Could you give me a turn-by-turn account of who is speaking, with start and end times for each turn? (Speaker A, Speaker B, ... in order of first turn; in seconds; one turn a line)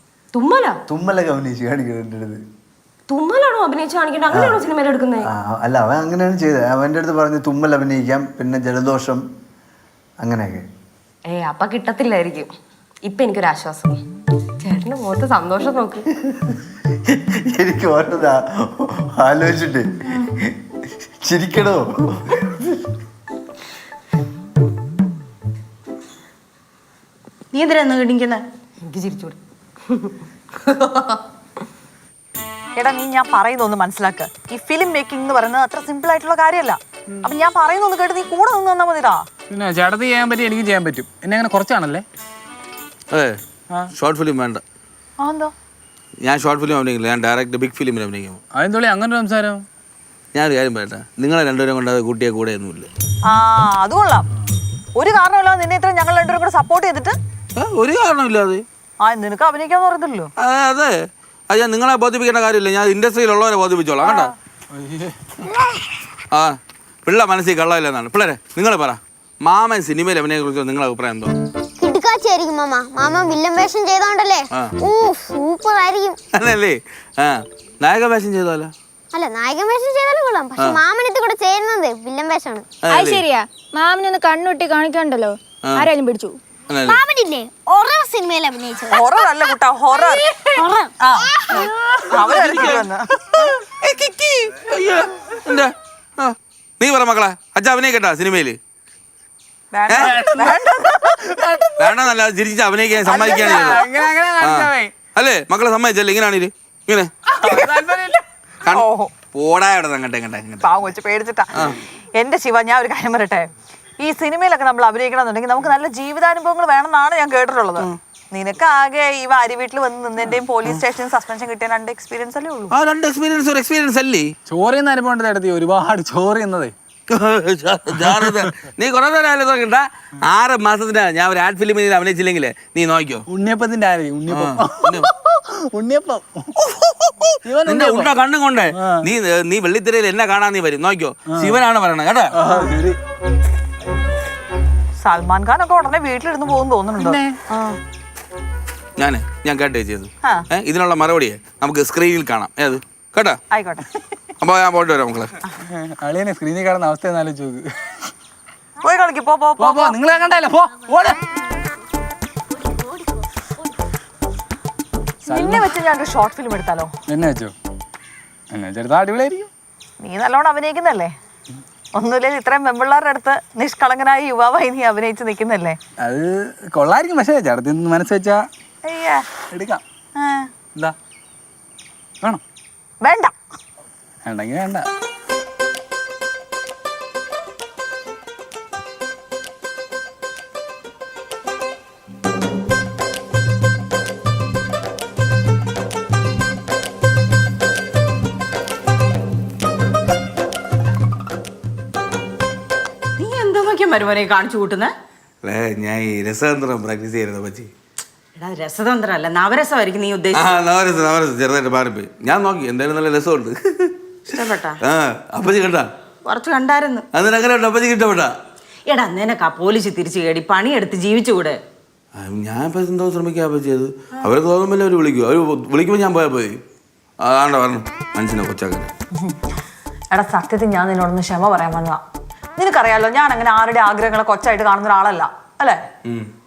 Speaker A: 0.3-0.8
Speaker B: 0.9-2.4
Speaker A: 3.1-5.3
Speaker B: 4.3-4.6
Speaker B: 5.2-9.2
Speaker B: 10.2-10.7
Speaker A: 11.3-12.5
Speaker A: 13.0-14.0
Speaker A: 14.6-16.1
Speaker B: 17.1-20.6
Speaker B: 21.2-22.8
Speaker C: 27.5-28.4
Speaker A: 28.8-31.2
Speaker D: 32.8-39.2
Speaker E: 39.5-42.0
Speaker F: 43.1-43.4
Speaker F: 43.9-44.6
Speaker D: 45.2-45.5
Speaker F: 46.2-48.4
Speaker E: 48.5-49.6
Speaker F: 50.4-52.9
Speaker D: 53.3-54.2
Speaker D: 55.0-57.1
Speaker F: 57.6-58.6
Speaker D: 59.0-60.3
Speaker F: 60.4-61.0
Speaker F: 61.5-64.3
Speaker D: 64.0-64.3
Speaker E: 64.7-65.2
Speaker F: 66.3-71.3
Speaker G: 71.8-76.2
Speaker F: 76.4-78.7
Speaker G: 79.1-82.7
Speaker F: 82.8-83.2
Speaker H: 82.9-86.4
Speaker F: 86.7-87.0
Speaker G: 86.8-89.2
Speaker D: 88.9-90.2
Speaker G: 90.0-90.9
Speaker D: 91.0-91.3
Speaker D: 92.1-93.0
Speaker F: 92.2-92.8
Speaker E: 93.9-94.4
Speaker F: 94.6-98.6
Speaker D: 99.7-101.2
Speaker E: 100.0-101.8
Speaker F: 101.8-103.9
Speaker D: 103.1-103.9
Speaker E: 103.1-104.9
Speaker F: 104.4-107.1
Speaker E: 107.4-108.2
Speaker F: 108.6-110.7
Speaker D: 108.7-109.1
Speaker D: 110.6-111.5
Speaker D: 112.2-113.5
Speaker D: 114.0-122.7
Speaker F: 122.7-124.3
Speaker E: 124.5-126.7
Speaker F: 127.1-133.2
Speaker E: 128.1-128.5
Speaker E: 133.3-136.5
Speaker F: 134.3-135.1
Speaker F: 136.7-142.3
Speaker E: 137.4-138.1
Speaker E: 138.7-139.1
Speaker E: 142.3-143.0
Speaker D: 145.0-147.8
Speaker E: 147.0-147.4
Speaker F: 149.0-153.4
Speaker D: 153.5-153.9
Speaker F: 154.4-155.3
Speaker E: 155.7-157.7
Speaker D: 158.8-159.9
Speaker E: 159.6-161.2
Speaker D: 165.3-166.9
Speaker E: 165.3-165.7
Speaker E: 167.1-167.5
Speaker E: 168.5-169.5
Speaker D: 170.0-171.2
Speaker D: 171.9-175.8
Speaker E: 176.0-178.5
Speaker D: 178.8-179.3
Speaker E: 179.5-179.8
Speaker D: 180.2-180.5
Speaker D: 183.0-183.3
Speaker E: 184.2-184.9
Speaker C: 203.2-204.9
Speaker F: 205.4-207.7
Speaker C: 208.4-210.4
Speaker F: 210.3-214.0
Speaker C: 214.3-214.8
Speaker F: 214.8-215.9
Speaker C: 216.3-217.1
Speaker F: 217.1-218.3
Speaker C: 218.9-221.6
Speaker F: 222.2-226.6
Speaker F: 227.2-228.9
Speaker D: 230.1-232.0
Speaker D: 232.6-235.8